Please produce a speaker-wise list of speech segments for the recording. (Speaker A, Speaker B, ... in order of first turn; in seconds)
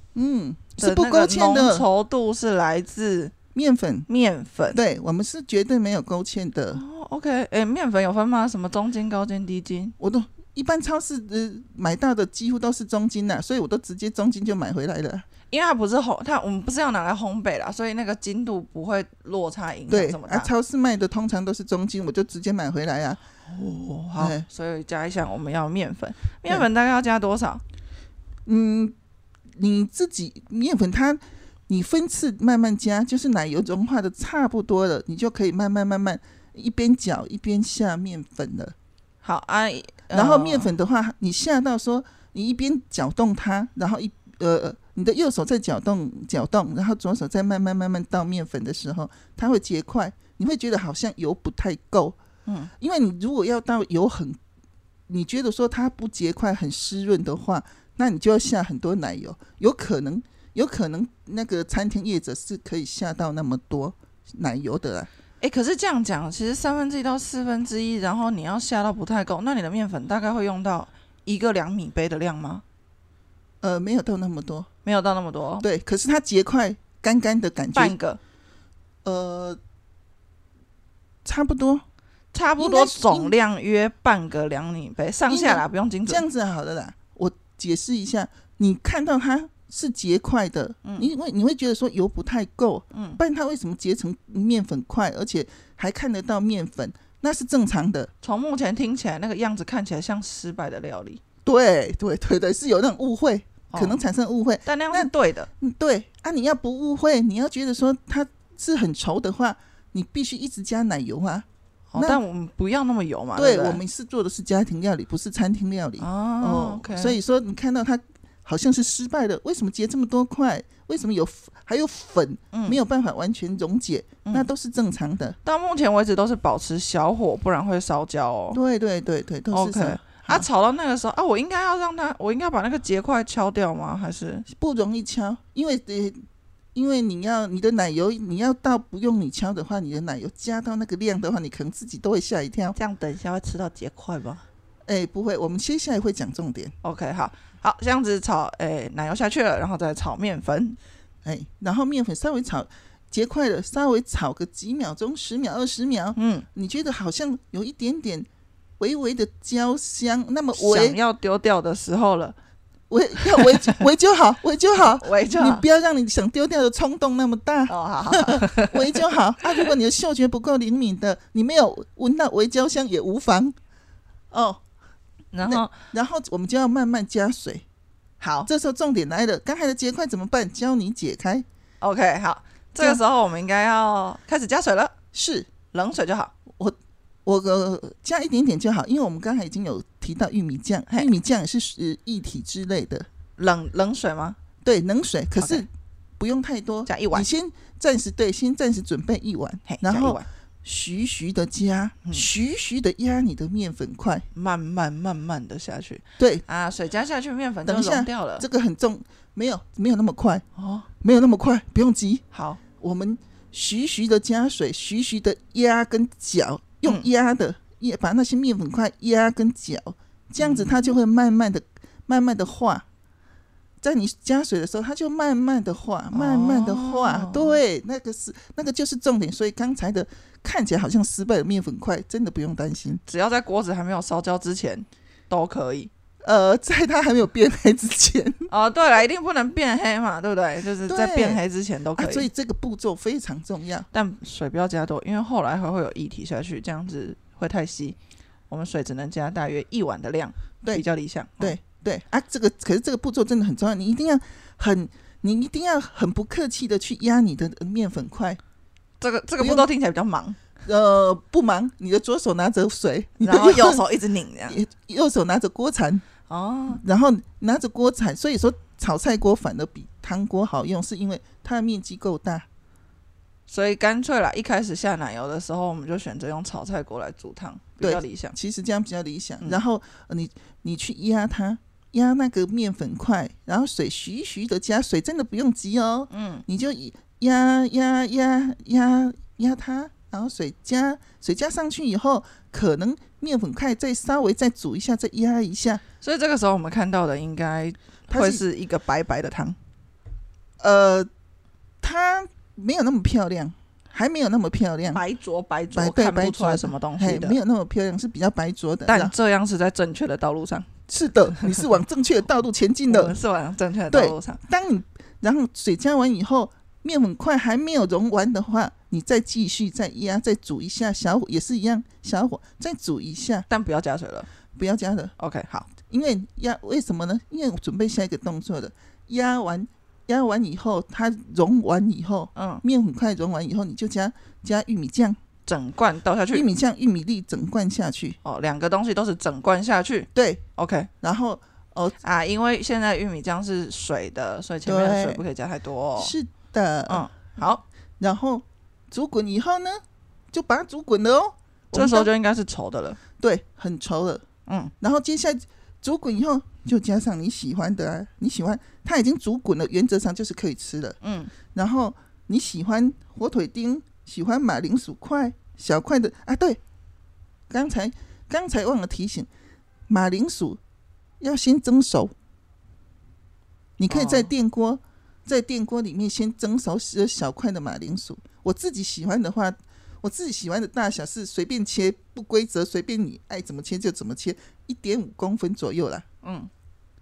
Speaker A: 0.1-1.9, 3.5-4.1, 4.7-6.8, 10.0-15.3, 19.9-23.2, 24.2-24.5, 28.5-28.9, 29.6-38.8, 40.1-52.2, 52.8-54.4, 55.1-65.1, 73.6-74.7, 75.6-78.0, 79.0-79.6, 81.2-81.8, 82.6-83.3, 85.3-98.1, 101.5-112.2, 113.4-125.4, 128.5-130.5, 134.5-136.2, 136.8-142.8, 144.9-146.7, 151.2-158.3, 158.8-161.0, 162.9-173.6, 174.3-174.6, 175.4-177.7, 178.5-181.5, 185.1-185.5, 186.6-193.1, 194.6-204.3, 206.2-206.4, 207.6-210.4, 211.0-212.2, 212.8-222.9, 223.8-233.0, 236.2-238.5, 240.8-241.4, 242.0-243.9, 251.4-258.4, 259.4-259.7, 260.6-263.9, 264.5-266.1, 266.7-272.5, 277.8-295.8, 298.1-298.4, 300.6-301.1, 301.8-305.0, 305.7-309.1, 310.9-313.2, 313.9-323.5, 324.6-325.1, 325.8-335.2, 336.3-338.2, 340.1-340.4, 341.0-342.0, 344.7-345.2, 346.0-347.1, 348.0-352.1, 353.2-354.2, 354.8-361.0, 361.5-366.6, 367.5-369.3, 369.9-370.6, 371.2-372.1, 373.8-386.1
Speaker B: 0.8-3.4, 4.1-4.8, 6.7-9.9, 15.5-20.5, 23.5-27.6, 39.2-40.7, 65.4-72.6, 74.8-75.7, 77.8-78.2, 82.3-86.2, 92.9-93.2, 98.2-101.2, 103.7-104.0, 104.7-105.5, 111.9-113.8, 116.0-117.2, 122.5-122.8, 125.5-128.6, 129.5-134.5, 142.8-144.4, 146.8-150.8, 156.2-156.5, 160.6-162.3, 163.3-163.8, 164.8-165.6, 167.7-169.0, 175.3-175.7, 178.2-178.5, 181.8-184.9, 185.7-186.3, 193.4-194.4, 195.4-195.7, 196.9-197.3, 199.7-200.2, 204.3-208.5, 210.6-210.9, 212.3-212.6, 220.4-220.8, 226.1-227.6, 233.1-235.9, 238.5-242.3, 243.9-248.0, 248.5-251.6, 259.0-260.4, 263.2-264.6, 266.3-266.8, 273.5-278.4, 286.1-286.4, 296.0-299.6, 304.9-307.4, 308.9-310.7, 312.9-314.4, 323.5-324.3, 325.2-325.7, 332.4-332.6, 335.5-336.5, 338.2-340.9, 342.0-346.1, 346.9-347.6, 351.7-353.0, 354.5-354.7, 361.0-361.3, 373.9-374.3, 386.2-386.5